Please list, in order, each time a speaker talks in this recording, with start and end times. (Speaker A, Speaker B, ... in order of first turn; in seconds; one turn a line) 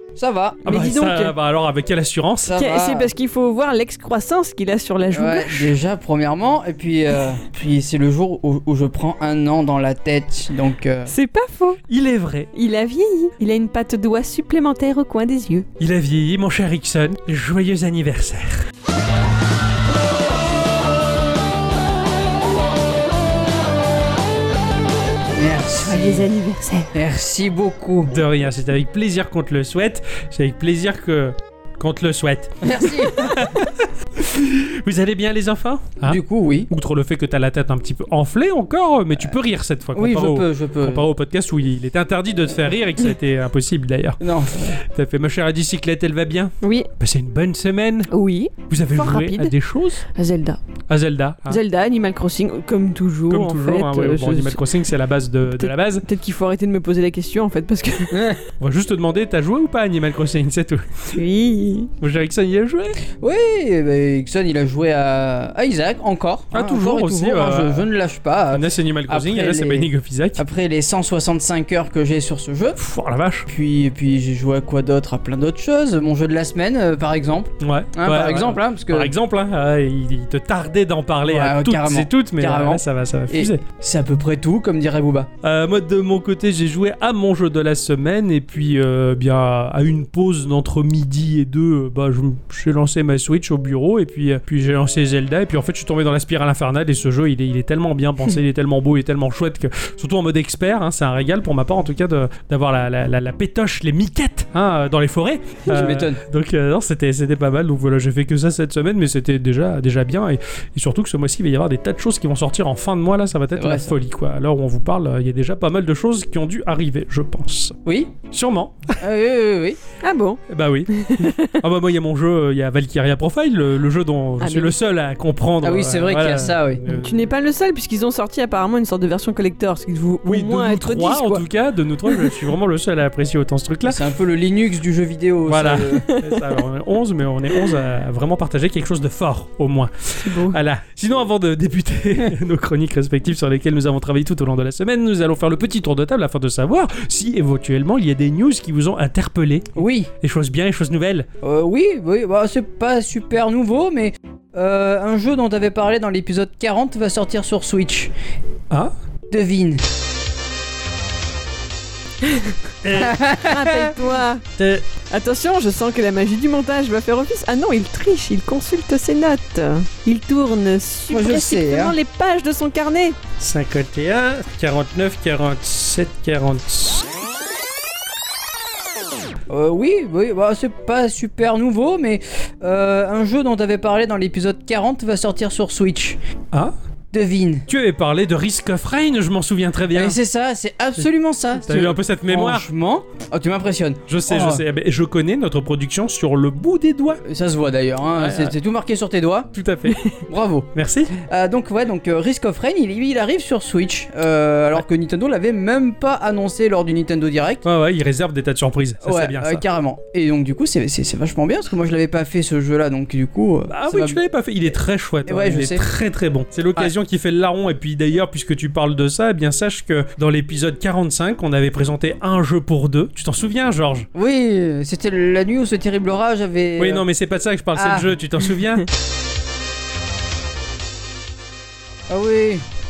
Speaker A: 0.1-0.7
Speaker B: 0.6-2.6
Speaker C: 0.7-1.3
Speaker A: 2.5-3.1
Speaker C: 2.5-5.7
Speaker A: 5.1-11.1
Speaker C: 11.1-11.8
Speaker B: 11.9-12.5
Speaker C: 12.5-15.7
Speaker B: 15.8-18.7
Speaker A: 25.4-26.2
Speaker C: 25.8-26.9
Speaker A: 26.9-28.1
Speaker B: 28.1-44.2
Speaker A: 32.6-33.4
Speaker A: 36.0-36.7
Speaker A: 39.9-41.0
Speaker A: 44.2-44.8
Speaker B: 44.8-48.1
Speaker C: 46.6-46.9
Speaker C: 48.1-50.6
Speaker B: 48.7-50.0
Speaker B: 50.9-51.6
Speaker C: 51.5-54.6
Speaker B: 53.3-56.0
Speaker C: 55.5-58.3
Speaker A: 58.1-58.4
Speaker B: 58.6-61.1
Speaker C: 61.1-61.9
Speaker B: 62.0-63.0
Speaker A: 63.2-72.8
Speaker B: 66.5-67.9
Speaker B: 68.5-70.4
Speaker B: 72.8-73.5
Speaker A: 73.5-79.1
Speaker B: 77.6-83.6
Speaker A: 81.2-85.3
Speaker B: 85.4-117.8
Speaker A: 105.7-106.2
Speaker A: 113.5-113.9
Speaker A: 117.8-118.1
Speaker B: 118.3-119.0
Speaker A: 119.0-119.8
Speaker C: 120.0-121.6
Speaker B: 120.5-127.3
Speaker C: 124.4-124.7
Speaker A: 125.6-126.8
Speaker C: 126.9-131.4
Speaker B: 130.2-134.0
Speaker C: 132.1-132.4
Speaker A: 133.8-136.1
Speaker B: 135.5-151.3
Speaker C: 136.1-136.4
Speaker C: 140.2-140.6
Speaker A: 149.8-150.1
Speaker A: 151.4-158.1
Speaker A: 159.3-159.8
Speaker C: 162.2-162.5
Speaker B: 162.8-163.2
Speaker A: 162.9-163.9
Speaker C: 163.4-164.4
Speaker B: 164.6-164.8
Speaker C: 165.1-173.2
Speaker A: 171.1-171.9
Speaker B: 173.4-177.0
Speaker A: 179.5-186.2
Speaker A: 187.1-187.7
Speaker B: 187.7-190.2
Speaker A: 189.9-194.6
Speaker B: 191.6-192.7
Speaker B: 194.1-197.2
Speaker A: 197.2-199.5
Speaker B: 198.2-198.6
Speaker B: 199.5-200.0
Speaker A: 200.2-207.6
Speaker B: 200.7-201.1
Speaker B: 207.6-209.6
Speaker A: 209.0-214.2
Speaker B: 213.7-224.1
Speaker A: 215.3-215.8
Speaker A: 224.1-227.0
Speaker B: 226.8-228.9
Speaker A: 227.7-228.0
Speaker A: 232.1-232.6